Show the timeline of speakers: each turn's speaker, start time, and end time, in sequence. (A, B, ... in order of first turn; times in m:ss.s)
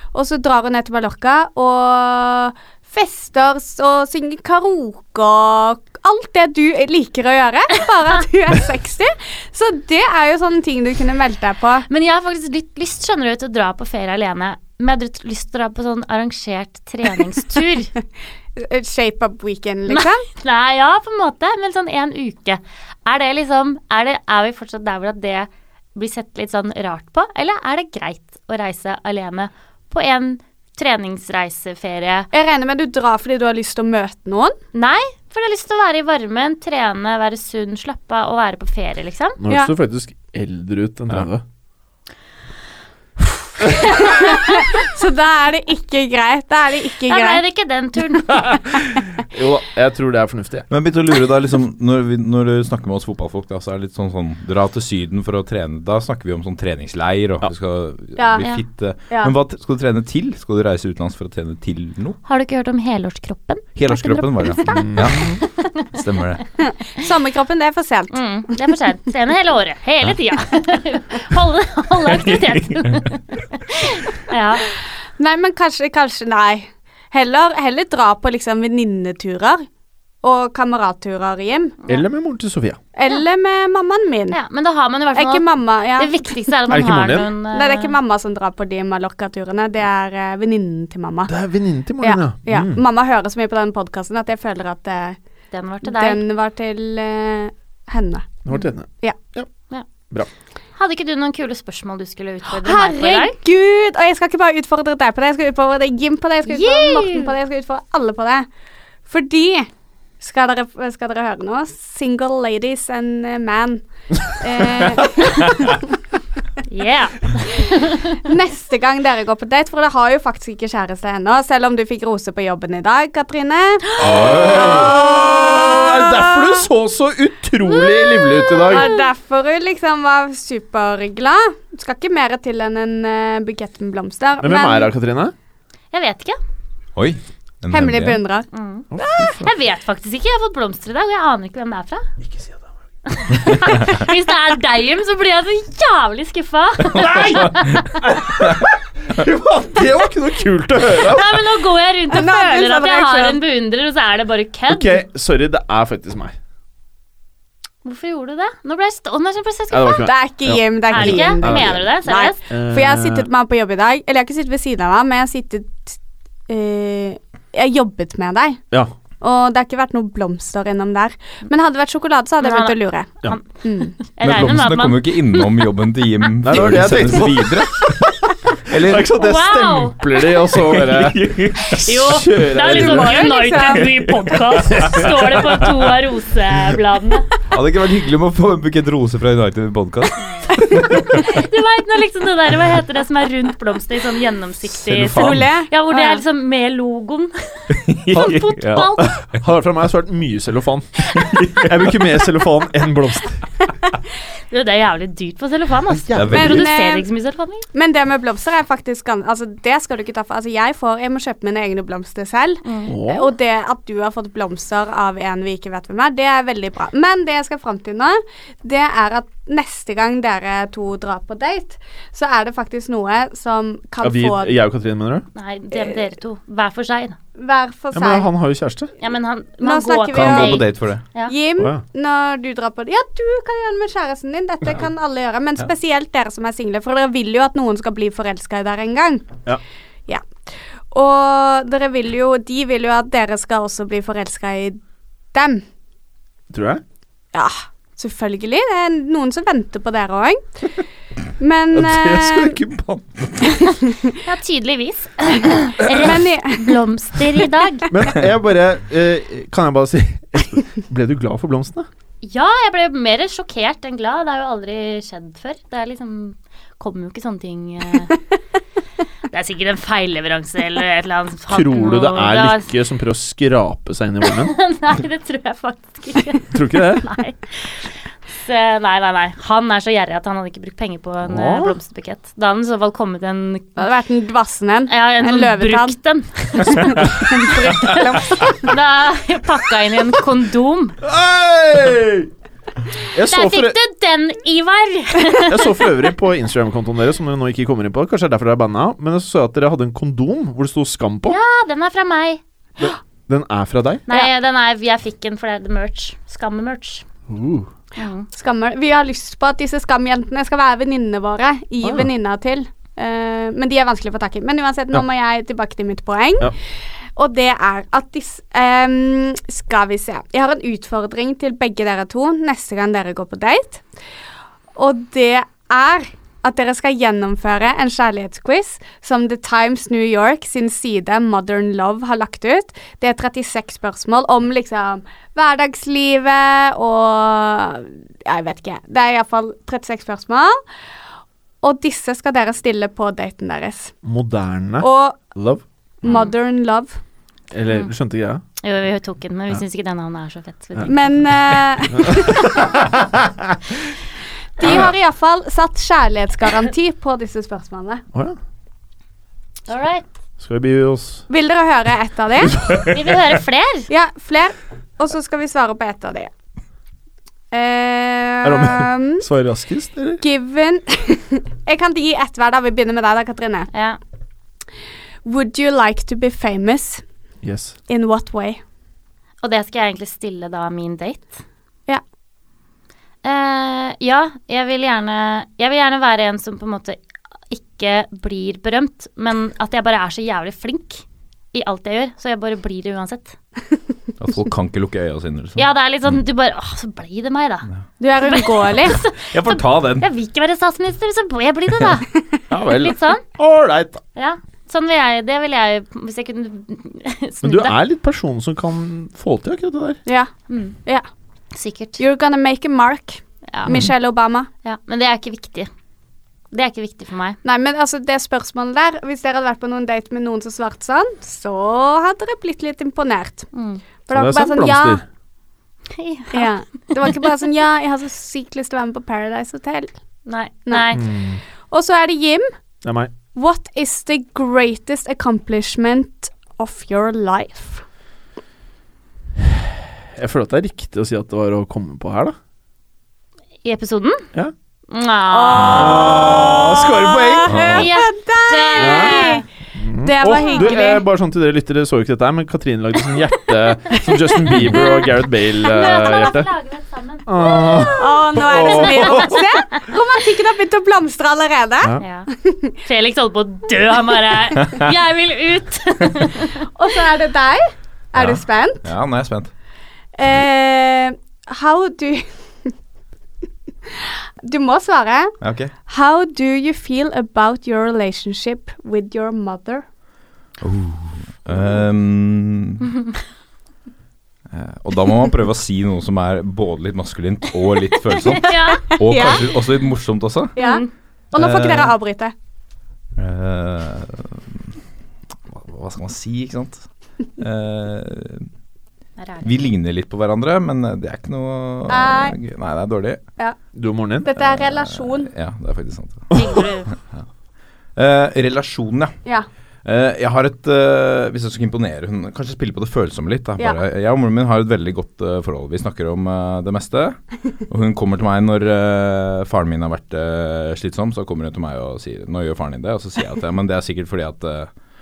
0:00.1-0:11.9 A
0:11.9-0:17.9 B
0:18.6-0:20.2 A
0:19.9-0:32.3 B
0:32.3-0:34.6 A
0:34.7-0:39.4 B
0:39.4-0:41.4 C
0:43.7-0:47.4 A
0:44.2-0:44.5 B
0:47.1-0:48.6 B
0:48.3-0:50.7 C
0:50.7-1:02.2 D
0:58.2-0:58.4 A
1:02.2-1:05.9 B
1:03.8-1:06.4 D
1:04.7-1:05.4 C
1:06.6-1:08.2 A
1:08.1-1:14.7 B
1:12.0-1:13.0 D
1:15.2-1:19.7 A
1:20.2-1:21.8 A
1:21.9-1:22.8 C
1:22.9-1:24.4 A
1:24.3-1:28.0 B
1:25.1-1:26.3 A
1:26.7-1:27.3 C
1:27.5-1:31.3 A
1:31.3-1:32.8 C
1:32.0-1:35.2 A
1:35.5-1:36.2 B
1:35.8-1:38.4 A
1:38.4-1:39.5 C
1:40.8-1:43.3 B
1:42.5-1:48.5 A
1:46.5-1:47.3 B
1:49.1-1:49.7 A
1:50.2-1:55.9 A
1:56.7-1:58.2 B
1:58.2-2:06.6 A
2:04.0-2:08.9 C
2:04.0-2:04.9 D
2:07.8-2:09.0 B
2:08.5-2:14.9 A
2:14.4-2:15.3 C
2:15.9-2:16.4 B
2:16.9-2:18.2 D
2:17.7-2:18.4 A
2:18.5-2:22.0 B
2:18.9-2:19.5 C
2:22.2-2:22.5 C
2:23.1-2:28.0 B
2:26.9-2:27.5 C
2:27.0-2:27.8 D
2:28.0-2:31.6 C
2:31.0-2:35.0 B
2:32.1-2:33.4 A
2:34.7-2:36.3 C
2:37.8-2:40.1 B
2:39.7-2:41.9 C
2:40.0-2:46.0 A
2:40.9-2:42.4 B
2:42.5-2:43.3 C
2:46.5-2:48.6 A
2:49.2-2:54.0 A
2:52.4-2:53.4 B
2:54.0-2:55.7 B
2:54.2-2:59.1 D
2:56.4-3:03.3 C
2:59.1-3:00.1 B
3:00.5-3:02.2 D
3:01.6-3:07.3 B
3:02.6-3:04.0 A
3:03.7-3:05.9 D
3:04.7-3:05.4 C
3:07.5-3:11.2 D
3:11.1-3:19.2 B
3:14.9-3:15.5 D
3:15.1-3:16.2 A
3:17.7-3:18.9 D
3:18.1-3:23.4 C
3:21.2-3:21.9 D
3:24.5-3:27.6 B
3:26.1-3:26.6 C
3:26.1-3:26.7 D
3:26.3-3:27.1 A
3:27.7-3:44.6 A
3:32.9-3:33.3 C
3:44.0-3:45.2 C
3:45.3-3:47.2 B
3:45.7-3:46.0 A
3:47.4-3:48.3 A
3:47.9-3:48.9 C
3:49.0-3:51.3 B
3:49.6-3:50.7 A
3:50.1-3:51.0 D
3:51.2-3:59.3 A
4:00.9-4:04.8 A
4:05.3-4:05.6 A
4:06.5-4:06.8 C
4:07.3-4:10.6 A
4:11.4-4:12.6 A
4:11.7-4:12.8 C
4:12.5-4:13.6 D
4:13.6-4:14.2 A
4:14.2-4:17.9 B
4:15.9-4:16.8 A
4:17.9-4:21.9 C
4:22.2-4:28.1 B
4:29.3-4:32.7 B
4:31.5-4:34.5 C
4:34.4-4:43.8 B
4:36.5-4:37.1 C
4:41.2-4:41.7 C
4:43.8-4:46.0 A
4:44.9-4:51.0 B
4:46.6-4:48.7 A
4:51.0-4:52.3 C
4:53.1-4:53.8 C
4:53.3-4:55.7 B
4:55.5-5:01.4 C
5:01.3-5:02.4 B
5:02.8-5:04.0 C
5:04.1-5:07.0 B
5:07.3-5:07.7 C
5:08.0-5:08.3 B
5:08.3-5:16.5 A
5:11.8-5:12.1 C
5:17.2-5:23.8 A
5:24.8-5:40.6 A
5:41.6-5:43.9 A
5:44.0-5:45.6 C
5:44.8-5:45.2 A
5:46.0-5:47.0 A
5:46.0-5:46.3 B
5:47.5-5:48.4 C
5:48.6-5:51.0 B
5:50.9-5:52.8 A
5:51.9-5:53.7 C
5:54.6-5:58.0 A
5:54.6-5:54.9 C
5:59.7-6:00.0 B
6:00.4-6:01.2 C
6:01.3-6:02.6 A
6:02.5-6:03.0 C
6:02.9-6:03.9 B
6:03.9-6:06.3 A
6:07.5-6:09.2 A
6:08.4-6:10.2 C
6:10.2-6:13.7 A
6:13.7-6:14.0 B
6:15.2-6:17.0 A
6:17.4-6:17.8 C
6:17.9-6:18.6 A
6:19.4-6:21.4 B
6:23.2-6:33.4 B
6:34.2-6:36.2 D
6:35.6-6:37.7 B
6:38.0-6:39.0 A
6:38.2-6:42.1 B
6:39.2-6:40.0 D
6:42.5-6:44.0 C
6:42.6-6:43.2 B
6:44.1-6:47.8 B
6:47.4-6:50.0 C
6:50.0-6:50.3 A
6:50.5-6:50.8 B
6:51.5-6:52.0 B
6:52.0-6:54.5 A
6:53.5-6:53.8 B
6:54.6-6:55.7 B
6:56.5-6:57.4 B
6:57.4-7:03.5 A
7:03.5-7:03.8 B
7:04.1-7:05.0 A
7:04.1-7:05.0 C
7:05.9-7:06.5 B
7:06.3-7:09.9 A
7:10.2-7:11.0 B
7:10.9-7:11.4 C
7:11.7-7:12.5 A
7:12.8-7:13.1 C
7:13.3-7:17.8 A
7:20.1-7:22.3 C
7:23.6-7:24.3 B
7:24.9-7:26.3 B
7:25.3-7:29.4 A
7:25.6-7:27.6 C
7:27.4-7:27.9 D
7:27.7-7:29.4 B
7:28.8-7:36.5 C
7:30.0-7:31.0 A
7:30.4-7:30.8 B
7:34.5-7:35.0 A
7:35.6-7:38.0 B
7:37.3-7:39.5 C
7:37.9-7:42.8 A
7:38.6-7:39.8 B
7:42.0-7:42.3 B
7:42.8-7:46.7 B
7:44.6-7:44.9 D
7:46.7-7:48.8 A
7:48.1-7:49.5 D
7:50.2-7:52.7 A
7:53.9-7:55.4 A
7:55.4-7:55.7 D
7:55.9-7:59.8 A
8:00.6-8:02.9 D
8:04.5-8:10.6 D
8:08.2-8:08.9 B
8:08.8-8:09.5 A
8:10.6-8:12.3 A
8:10.6-8:10.9 B
8:11.3-8:12.0 D
8:13.2-8:14.8 D
8:15.5-8:16.8 D
8:17.4-8:18.5 D
8:19.2-8:19.5 B
8:19.4-8:23.2 D
8:21.9-8:22.4 A
8:23.7-8:24.3 C
8:24.2-8:25.3 A
8:24.4-8:26.4 D
8:26.3-8:26.6 C
8:26.3-8:26.9 B
8:26.9-8:27.2 D
8:28.0-8:29.1 D
8:29.8-8:37.2 D
8:37.7-8:44.7 D